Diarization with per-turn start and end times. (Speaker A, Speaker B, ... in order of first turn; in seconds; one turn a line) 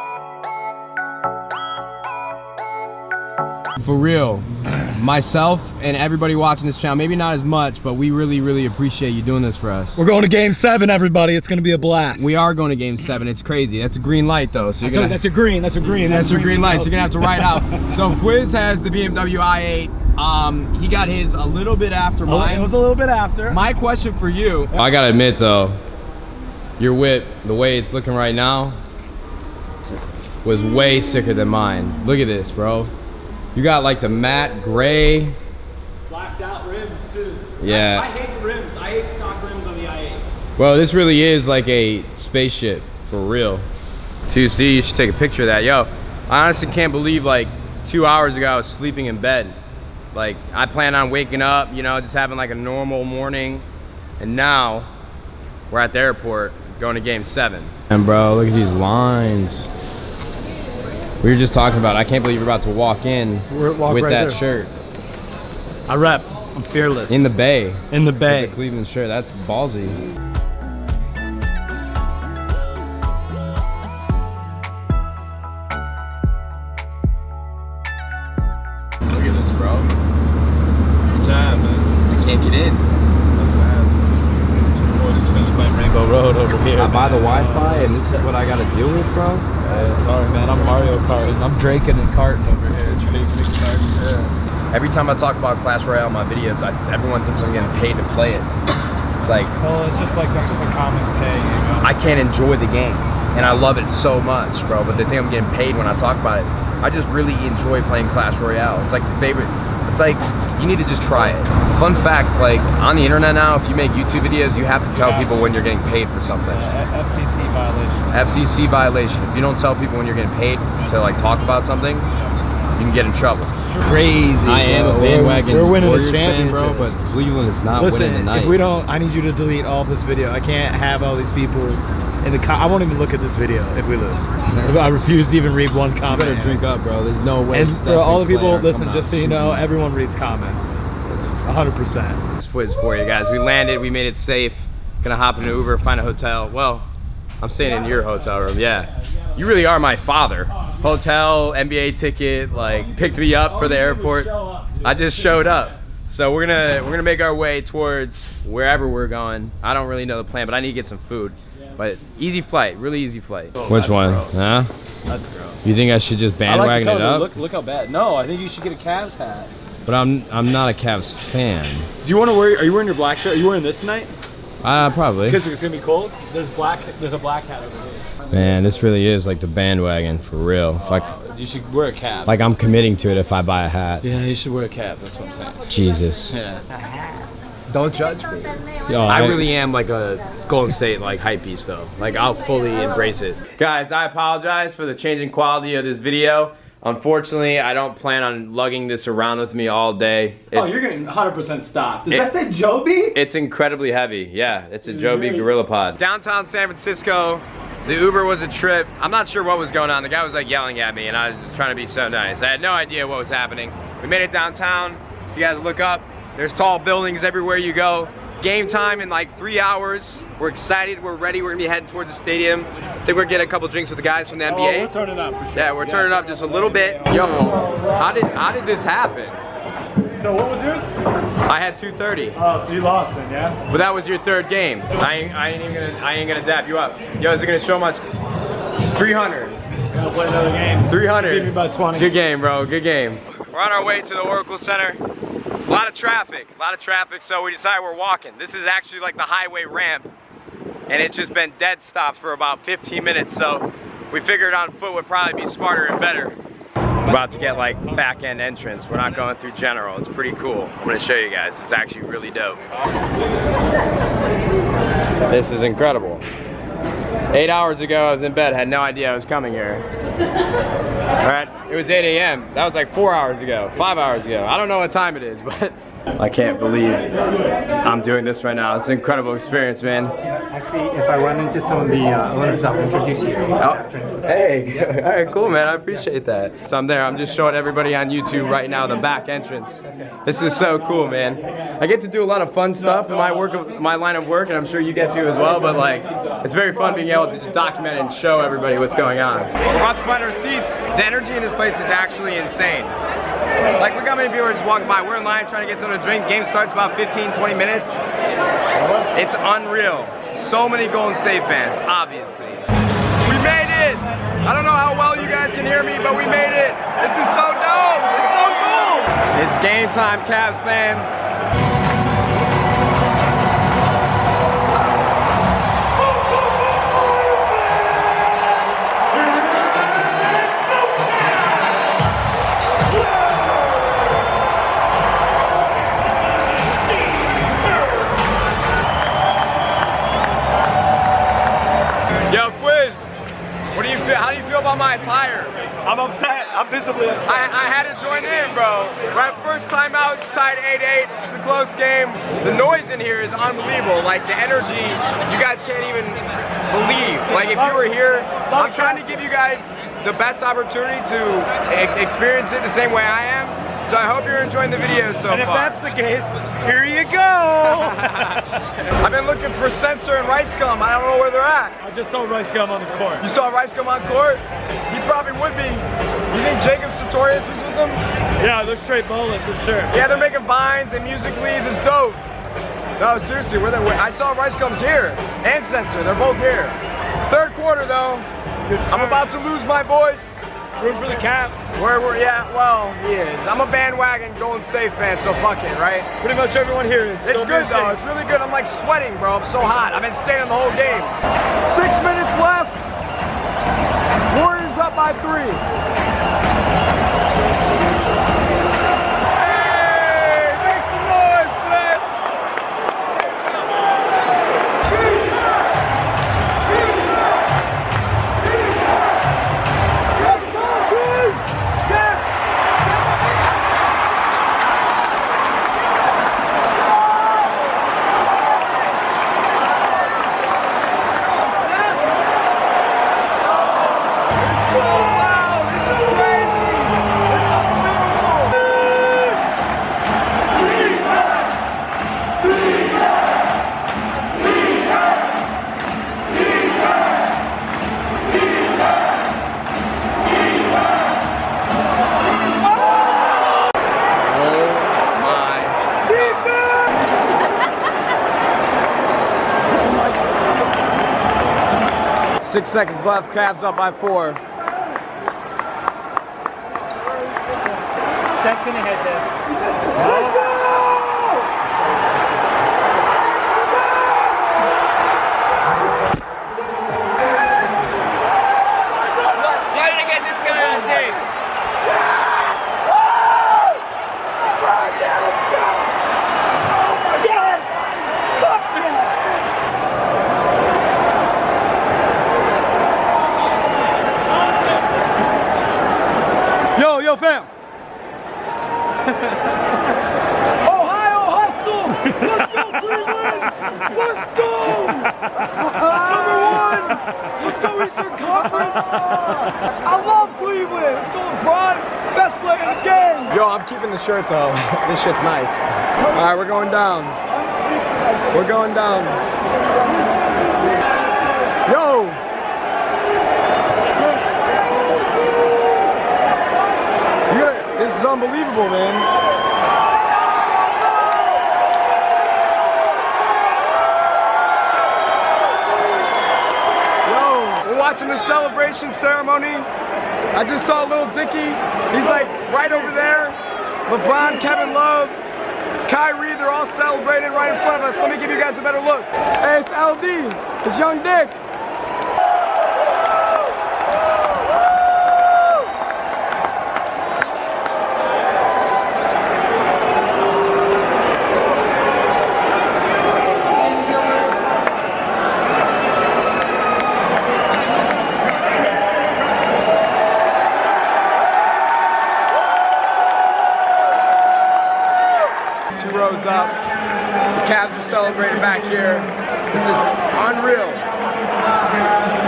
Speaker A: 3.8-10.0
Speaker B: 10.0-12.4
Speaker A: 12.2-15.2
Speaker B: 14.8-17.9
Speaker A: 16.1-22.7
Speaker B: 22.2-23.6
Speaker A: 23.5-25.8
Speaker A: 26.8-28.8
Speaker A: 30.4-32.9
Speaker A: 33.5-35.4
Speaker B: 36.1-40.2
Speaker A: 37.6-38.1
Speaker A: 40.6-43.7
Speaker A: 44.3-49.6
Speaker A: 50.1-53.6
Speaker A: 54.2-54.9
Speaker A: 55.7-59.7
Speaker A: 61.2-64.7
Speaker B: 63.5-64.4
Speaker B: 65.9-67.3
Speaker A: 67.1-70.1
Speaker B: 67.9-68.6
Speaker B: 79.1-79.9
Speaker B: 81.1-81.9
Speaker A: 82.1-82.8
Speaker B: 83.4-88.1
Speaker A: 86.8-89.5
Speaker B: 89.6-94.3
Speaker A: 94.7-98.5
Speaker A: 99.2-99.5
Speaker B: 99.6-102.1
Speaker A: 101.8-116.7
Speaker B: 115.0-115.4
Speaker B: 116.5-118.3
Speaker A: 118.1-122.1
Speaker A: 122.8-123.5
Speaker B: 123.6-126.9
Speaker A: 124.4-128.6
Speaker B: 127.8-136.6
Speaker A: 136.1-139.7
Speaker B: 137.5-140.8
Speaker A: 141.0-141.3
Speaker B: 141.4-142.2
Speaker A: 142.4-146.9
Speaker A: 147.4-154.3
Speaker B: 147.6-149.8
Speaker B: 150.5-151.0
Speaker B: 152.6-155.7
Speaker A: 154.8-164.7
Speaker B: 163.6-164.5
Speaker B: 165.1-165.6
Speaker A: 165.6-167.3
Speaker B: 166.5-169.5
Speaker A: 169.9-171.9
Speaker B: 172.0-174.2
Speaker A: 174.6-175.4
Speaker B: 175.3-178.1
Speaker A: 178.3-181.1
Speaker B: 180.8-182.4
Speaker A: 182.3-184.1
Speaker B: 184.0-185.6
Speaker A: 185.7-186.3
Speaker B: 186.3-186.6
Speaker A: 187.7-200.7
Speaker B: 188.9-189.4
Speaker B: 200.5-203.2
Speaker A: 203.2-224.9
Speaker B: 204.9-205.5
Speaker B: 224.4-227.0
Speaker A: 225.5-229.4
Speaker B: 230.2-230.9
Speaker A: 231.5-232.4
Speaker B: 232.3-233.6
Speaker A: 233.7-238.1
Speaker A: 238.9-239.6
Speaker B: 239.9-242.1
Speaker A: 240.9-245.0
Speaker A: 245.7-250.1
Speaker A: 250.9-256.4
Speaker A: 257.1-262.6
Speaker A: 265.3-266.2
Speaker A: 267.3-269.9
Speaker A: 271.2-277.1
Speaker A: 277.8-280.1
Speaker C: 280.7-283.4
Speaker B: 283.0-283.3
Speaker A: 283.6-302.9
Speaker A: 303.8-308.0
Speaker A: 309.1-312.6
Speaker A: 313.2-318.6
Speaker B: 318.1-319.2
Speaker A: 319.3-321.3
Speaker A: 342.3-343.1
Speaker A: 343.7-345.6
Speaker B: 345.9-347.6
Speaker A: 347.3-365.8
Speaker B: 357.4-359.3
Speaker B: 365.3-368.7
Speaker A: 367.8-368.4
Speaker A: 369.0-371.8
Speaker B: 371.8-373.3
Speaker A: 373.2-378.0
Speaker B: 378.4-380.1
Speaker A: 379.9-382.2
Speaker A: 383.0-388.3
Speaker B: 388.6-389.3
Speaker A: 388.9-390.4
Speaker B: 390.8-391.6
Speaker A: 391.7-396.1
Speaker B: 396.2-398.0
Speaker A: 397.2-402.8
Speaker A: 404.3-405.6
Speaker A: 409.3-412.1
Speaker B: 415.0-415.5
Speaker B: 416.7-417.2
Speaker B: 420.2-421.4
Speaker A: 434.3-438.7
Speaker A: 454.2-456.4
Speaker B: 456.3-456.9
Speaker A: 462.4-464.4
Speaker B: 468.4-469.2
Speaker A: 469.9-471.4
Speaker B: 469.9-470.4
Speaker A: 479.2-481.2
Speaker B: 480.5-481.0
Speaker A: 484.6-485.8
Speaker B: 488.4-488.8
Speaker B: 496.8-497.5
Speaker B: 500.6-509.8
Speaker A: 502.4-503.3
Speaker A: 503.9-505.0
Speaker A: 505.6-517.2
Speaker B: 512.2-513.2
Speaker B: 517.4-518.3
Speaker A: 518.3-519.2
Speaker A: 521.7-522.2
Speaker A: 527.3-529.1
Speaker A: 537.0-539.7
Speaker A: 540.3-545.2
Speaker A: 545.9-551.4
Speaker A: 575.8-576.6
Speaker A: 577.4-580.8